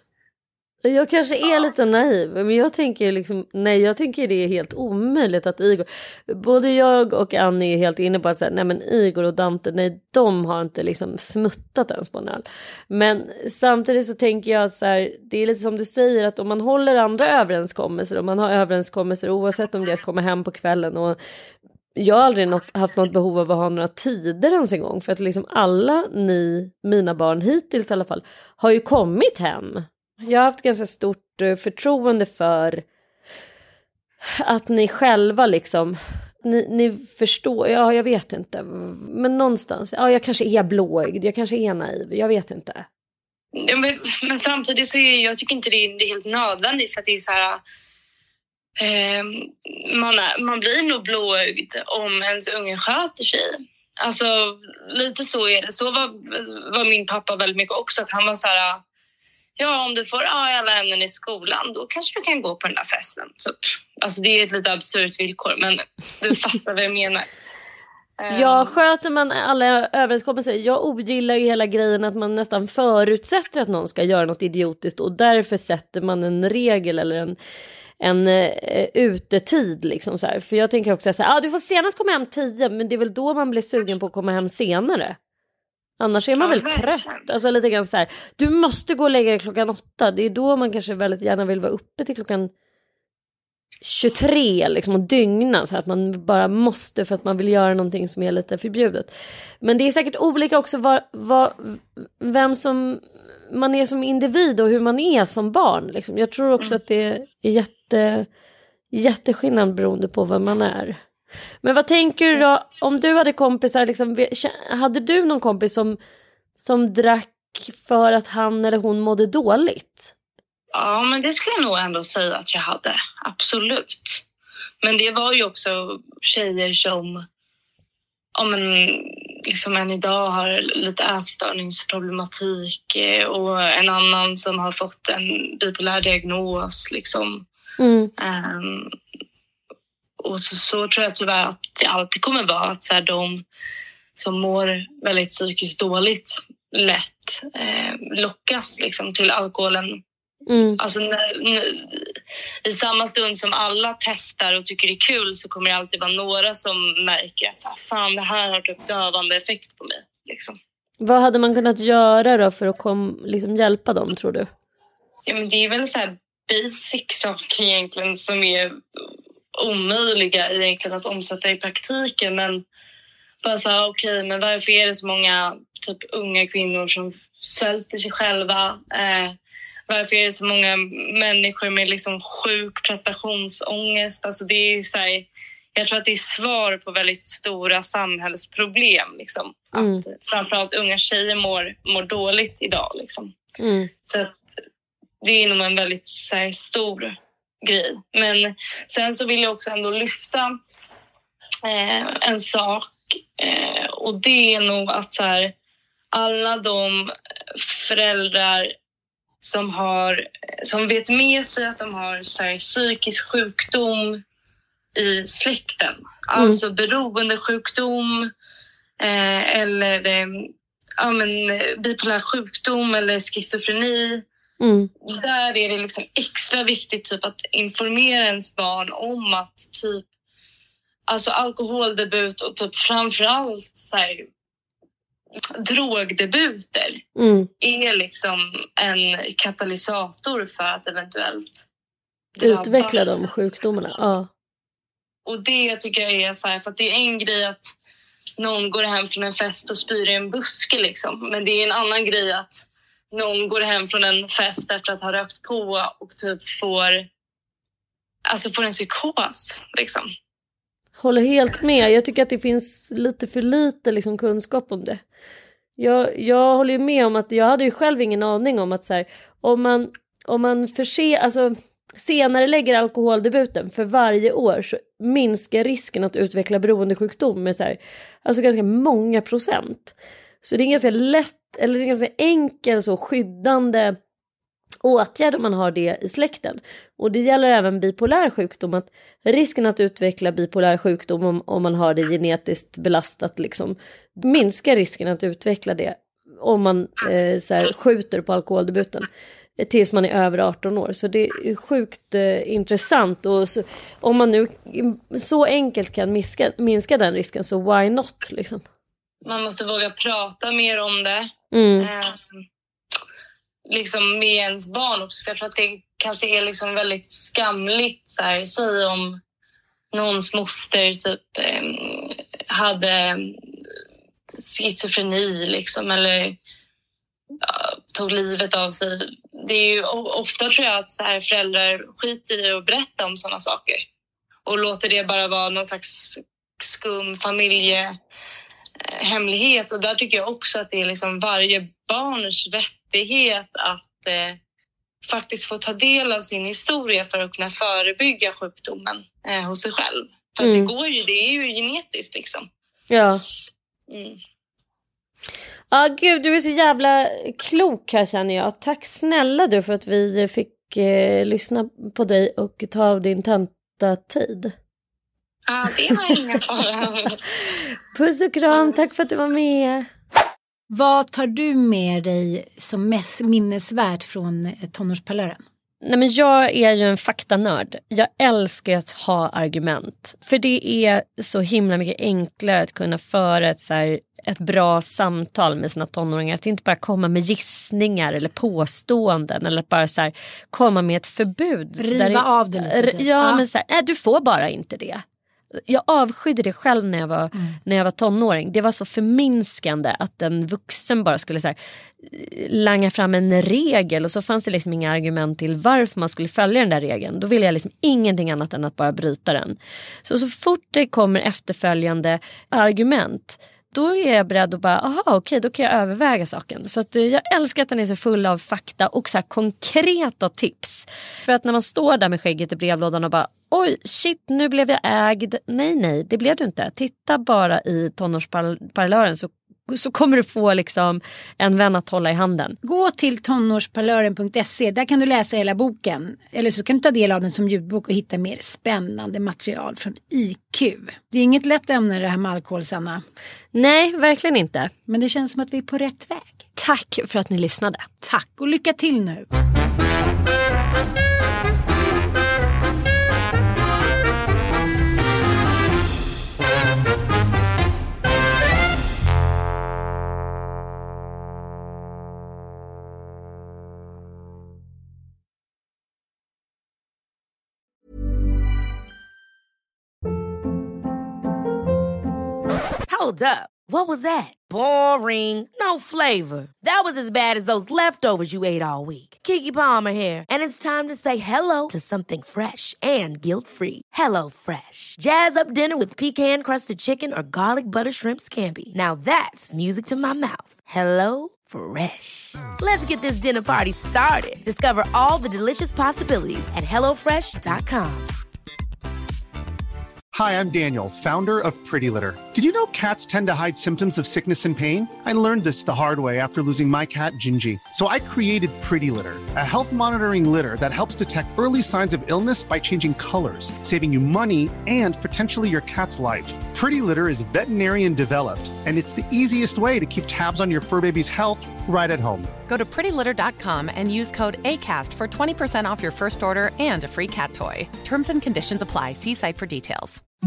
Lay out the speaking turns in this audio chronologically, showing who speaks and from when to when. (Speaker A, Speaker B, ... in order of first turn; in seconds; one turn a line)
Speaker A: 0.8-21.2
Speaker A: 21.9-32.8
Speaker A: 34.4-42.9
Speaker B: 43.5-47.6
Speaker B: 48.8-58.8
Speaker B: 59.6-67.3
Speaker B: 68.2-68.8
Speaker A: 68.3-77.3
Speaker A: 78.0-85.2
Speaker A: 86.0-92.5
Speaker B: 86.4-87.3
Speaker A: 93.8-99.1
Speaker A: 99.6-108.3
Speaker A: 108.9-111.0
Speaker A: 111.6-116.0
Speaker A: 116.6-120.1
Speaker B: 120.7-124.2
Speaker B: 124.8-127.2
Speaker B: 128.3-137.4
Speaker A: 137.8-138.1
Speaker B: 138.2-138.9
Speaker B: 140.2-143.4
Speaker B: 144.2-150.0
Speaker A: 150.5-150.8
Speaker B: 150.8-160.6
Speaker A: 161.0-164.5
Speaker B: 165.3-168.8
Speaker B: 169.6-172.6
Speaker B: 173.4-179.3
Speaker B: 179.9-193.3
Speaker A: 189.7-190.0
Speaker A: 193.6-193.9
Speaker B: 194.1-194.4
Speaker B: 195.2-200.5
Speaker B: 201.6-205.5
Speaker B: 206.1-208.7
Speaker B: 209.4-214.2
Speaker B: 214.9-218.3
Speaker B: 219.0-224.2
Speaker A: 224.6-224.9
Speaker B: 225.0-230.0
Speaker B: 231.1-234.2
Speaker B: 235.6-237.0
Speaker A: 237.2-237.5
Speaker B: 237.6-241.6
Speaker B: 242.4-243.3
Speaker A: 242.4-244.3
Speaker B: 245.2-247.6
Speaker B: 248.4-257.1
Speaker B: 258.3-260.1
Speaker A: 261.0-265.0
Speaker A: 265.8-283.9
Speaker A: 284.8-308.6
Speaker B: 309.2-311.3
Speaker A: 311.5-311.9
Speaker B: 311.8-312.2
Speaker B: 313.7-319.2
Speaker B: 319.9-323.4
Speaker B: 324.4-326.4
Speaker B: 327.4-333.8
Speaker B: 334.4-337.9
Speaker B: 338.8-344.4
Speaker B: 345.1-352.4
Speaker A: 350.4-350.7
Speaker A: 352.9-353.2
Speaker B: 353.9-354.2
Speaker A: 355.7-364.5
Speaker B: 365.5-367.2
Speaker A: 367.9-369.9
Speaker C: 370.7-375.4
Speaker A: 375.8-432.6
Speaker C: 391.8-393.4
Speaker C: 432.6-443.0
Speaker A: 443.5-444.7
Speaker C: 444.9-446.4
Speaker A: 446.6-448.0
Speaker C: 448.0-449.3
Speaker D: 472.9-498.1
Speaker E: 500.1-522.3
Speaker F: 522.5-530.0